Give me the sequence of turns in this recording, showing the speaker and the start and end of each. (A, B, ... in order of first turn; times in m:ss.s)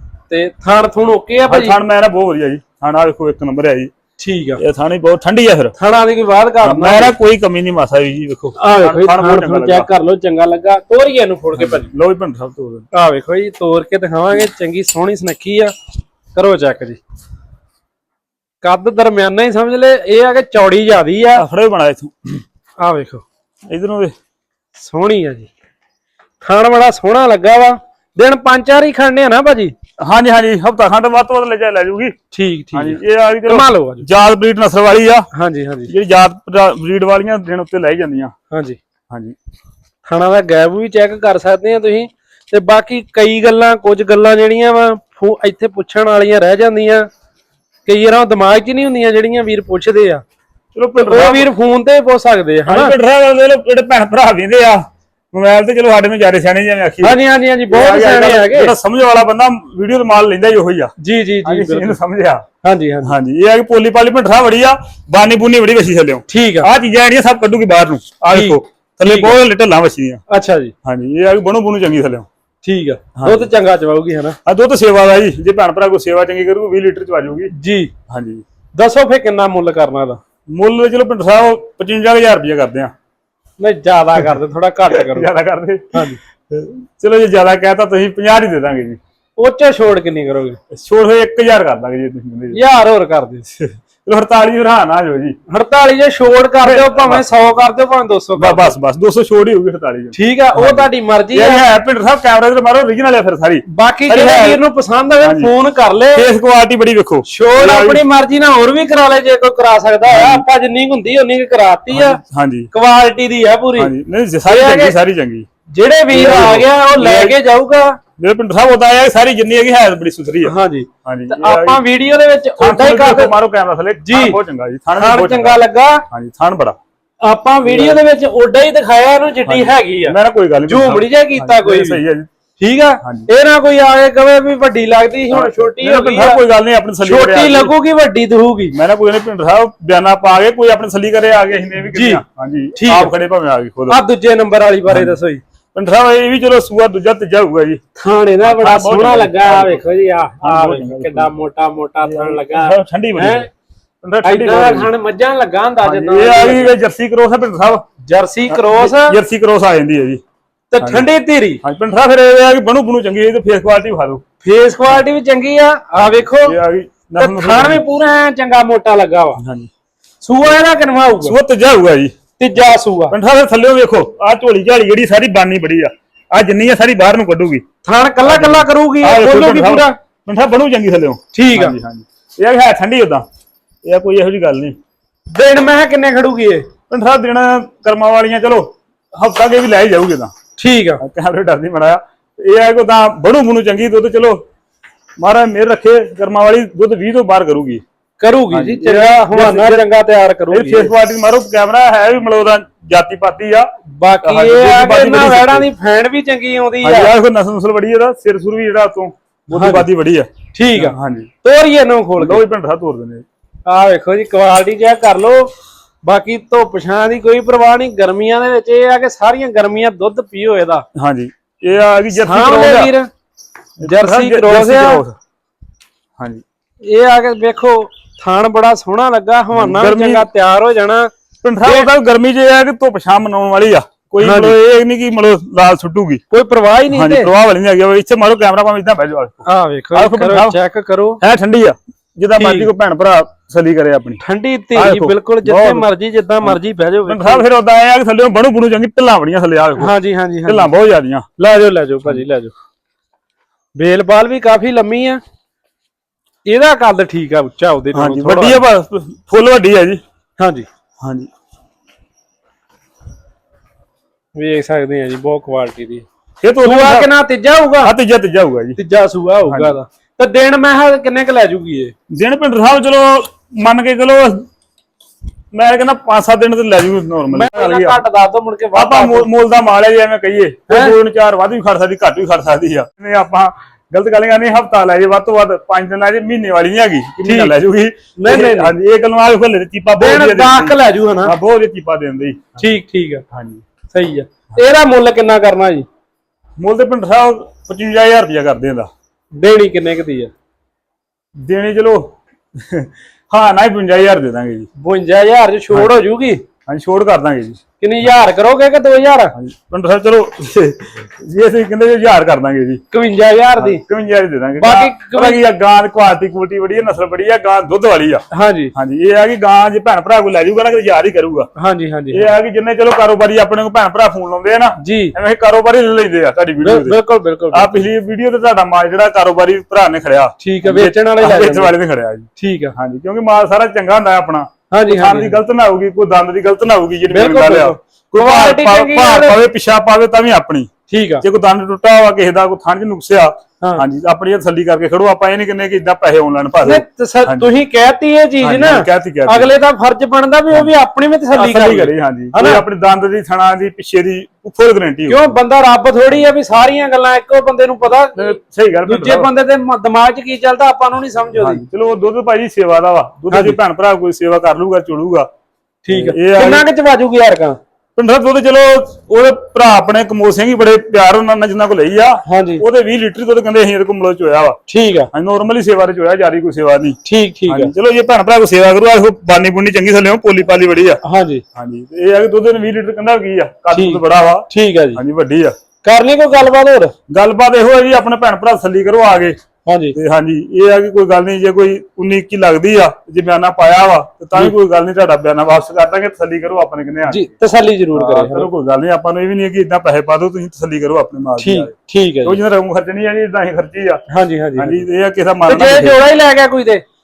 0:00.3-0:01.8 A
0:01.5-0:03.9 B
0:04.2-0:04.6 A
0:04.6-0:05.7 B
0:05.8-0:07.1 A
0:06.6-0:09.9 B
0:08.6-0:11.9 A
0:11.6-0:12.9 B
0:12.9-0:15.7 A
0:16.3-0:17.0 A
0:18.6-0:21.4 A
0:21.4-0:22.4 B
0:22.8-0:23.2 A
0:23.7-0:24.1 B
0:24.8-0:25.5 A
0:26.4-0:29.7 A
0:30.0-0:32.1 B
0:32.3-0:34.1 A
0:32.7-0:35.3 B
0:35.3-0:35.9 A
0:35.9-0:38.3 B
0:38.5-0:38.8 A
0:39.1-0:39.4 B
0:40.0-0:47.1 A
0:47.8-0:50.2 A
0:50.7-0:51.5 B
0:51.0-0:52.9 A
0:52.6-0:57.2 B
0:57.0-0:58.7 A
0:57.7-1:00.9 B
1:01.0-1:02.0 A
1:01.4-1:02.4 B
1:02.6-1:03.2 A
1:03.0-1:10.2 B
1:06.3-1:06.7 A
1:08.3-1:09.4 A
1:10.3-1:10.7 A
1:10.8-1:12.3 B
1:12.6-1:14.4 A
1:13.2-1:13.5 B
1:14.4-1:17.5 B
1:17.5-1:17.9 A
1:18.1-1:18.4 B
1:18.8-1:20.2 A
1:20.5-1:22.9 B
1:23.6-1:25.3 A
1:24.9-1:29.0 B
1:29.4-1:30.6 A
1:30.7-1:32.6 B
1:32.5-1:33.4 A
1:33.6-1:35.4 B
1:35.5-1:38.7 A
1:36.6-1:37.2 B
1:38.4-1:44.6 B
1:40.1-1:41.7 A
1:43.7-1:46.2 A
1:45.2-1:45.5 B
1:46.1-1:48.0 B
1:47.2-1:52.2 A
1:50.1-1:50.4 B
1:51.9-1:52.7 B
1:52.7-1:53.9 A
1:53.8-1:55.4 B
1:54.4-1:55.0 A
1:55.7-1:58.0 A
1:56.1-1:57.4 B
1:58.2-2:00.5 B
2:00.4-2:03.3 A
2:01.0-2:01.8 B
2:02.6-2:06.8 B
2:04.0-2:04.4 A
2:05.0-2:06.0 A
2:07.2-2:10.2 A
2:07.6-2:08.0 B
2:09.4-2:12.3 B
2:10.7-2:12.0 A
2:12.6-2:16.4 A
2:13.0-2:13.3 B
2:15.3-2:17.7 B
2:17.0-2:18.7 A
2:18.7-2:24.0 B
2:21.9-2:22.2 A
2:22.8-2:23.1 A
2:23.9-2:25.4 A
2:24.9-2:25.2 B
2:25.7-2:27.8 B
2:28.0-2:33.5 A
2:28.4-2:29.9 B
2:30.4-2:31.3 B
2:32.0-2:33.5 B
2:34.0-2:34.9 B
2:34.2-2:36.7 A
2:35.8-2:37.8 B
2:38.1-2:39.2 A
2:38.5-2:40.2 B
2:40.7-2:41.6 A
2:40.8-2:41.0 B
2:41.6-2:44.2 B
2:44.4-2:46.6 A
2:46.4-2:47.8 B
2:47.2-2:49.4 A
2:49.4-2:49.7 B
2:50.2-2:51.4 A
2:51.2-2:52.1 B
2:52.4-2:53.2 A
2:53.1-2:57.6 B
2:57.8-3:00.0 A
2:58.2-3:03.2 B
3:01.3-3:01.8 A
3:03.8-3:04.8 B
3:05.3-3:06.7 A
3:06.9-3:10.3 B
3:10.6-3:11.0 A
3:11.0-3:14.4 B
3:15.2-3:17.8 B
3:18.2-3:20.9 A
3:18.5-3:19.8 B
3:20.5-3:23.7 B
3:23.9-3:27.1 A
3:24.2-3:25.7 B
3:26.8-3:31.3 B
3:29.5-3:29.9 A
3:30.5-3:32.4 A
3:32.2-3:33.2 B
3:33.6-3:35.5 A
3:36.0-3:40.8 A
3:40.9-3:42.9 B
3:42.2-3:43.1 A
3:43.8-3:45.2 B
3:43.8-3:45.0 A
3:46.8-3:51.9 A
3:49.5-3:50.2 B
3:51.4-3:56.2 B
3:54.2-3:54.6 A
3:56.3-3:57.3 A
3:56.9-4:00.6 B
3:59.4-4:01.2 A
4:01.2-4:04.2 B
4:02.4-4:02.7 A
4:04.2-4:07.4 A
4:04.7-4:05.9 B
4:06.4-4:09.9 B
4:09.8-4:10.7 A
4:10.4-4:11.3 B
4:11.4-4:12.5 A
4:13.7-4:15.2 A
4:16.4-4:18.6 A
4:17.9-4:20.0 B
4:20.4-4:20.6 A
4:21.0-4:21.3 B
4:24.3-4:26.0 A
4:26.4-4:27.1 B
4:26.6-4:27.9 A
4:27.8-4:28.8 B
4:28.8-4:31.9 A
4:29.4-4:29.8 B
4:32.1-4:34.4 B
4:35.5-4:38.0 B
4:37.3-4:39.3 A
4:38.7-4:52.6 B
4:40.7-4:40.9 A
4:47.2-4:47.6 A
4:48.2-4:48.7 A
4:50.0-4:51.3 A
4:52.6-4:53.2 A
4:53.3-4:53.6 B
4:53.9-4:55.8 A
4:56.6-4:58.9 B
4:59.3-5:00.3 A
5:01.4-5:04.7 B
5:04.8-5:06.4 A
5:06.7-5:07.6 B
5:07.8-5:09.3 A
5:09.3-5:12.8 B
5:12.9-5:13.8 A
5:13.6-5:18.2 B
5:14.6-5:15.4 A
5:18.3-5:18.7 A
5:18.7-5:21.5 B
5:21.6-5:22.3 A
5:22.1-5:27.0 B
5:24.8-5:25.1 A
5:26.6-5:27.8 A
5:27.5-5:40.7 B
5:30.4-5:31.7 A
5:32.4-5:32.7 A
5:34.7-5:35.4 A
5:37.1-5:39.4 A
5:40.9-5:41.2 A
5:41.2-5:47.5 B
5:46.6-5:52.6 A
5:48.4-5:49.5 B
5:51.3-5:55.4 B
5:55.1-6:01.6 A
5:58.2-5:59.3 B
6:01.4-6:05.3 B
6:03.3-6:03.6 A
6:05.8-6:07.6 A
6:05.9-6:06.6 B
6:08.0-6:14.6 B
6:12.2-6:12.6 A
6:14.7-6:15.1 A
6:15.1-6:21.0 B
6:17.0-6:17.7 A
6:21.0-6:21.4 A
6:21.5-6:25.5 B
6:23.7-6:25.0 A
6:25.8-6:26.9 A
6:27.1-6:29.4 B
6:29.6-6:30.0 A
6:29.9-6:37.3 B
6:37.1-6:38.5 A
6:37.9-6:41.7 B
6:41.4-6:42.4 A
6:42.2-6:44.0 B
6:44.1-6:44.8 A
6:44.6-6:46.0 B
6:45.4-6:46.8 A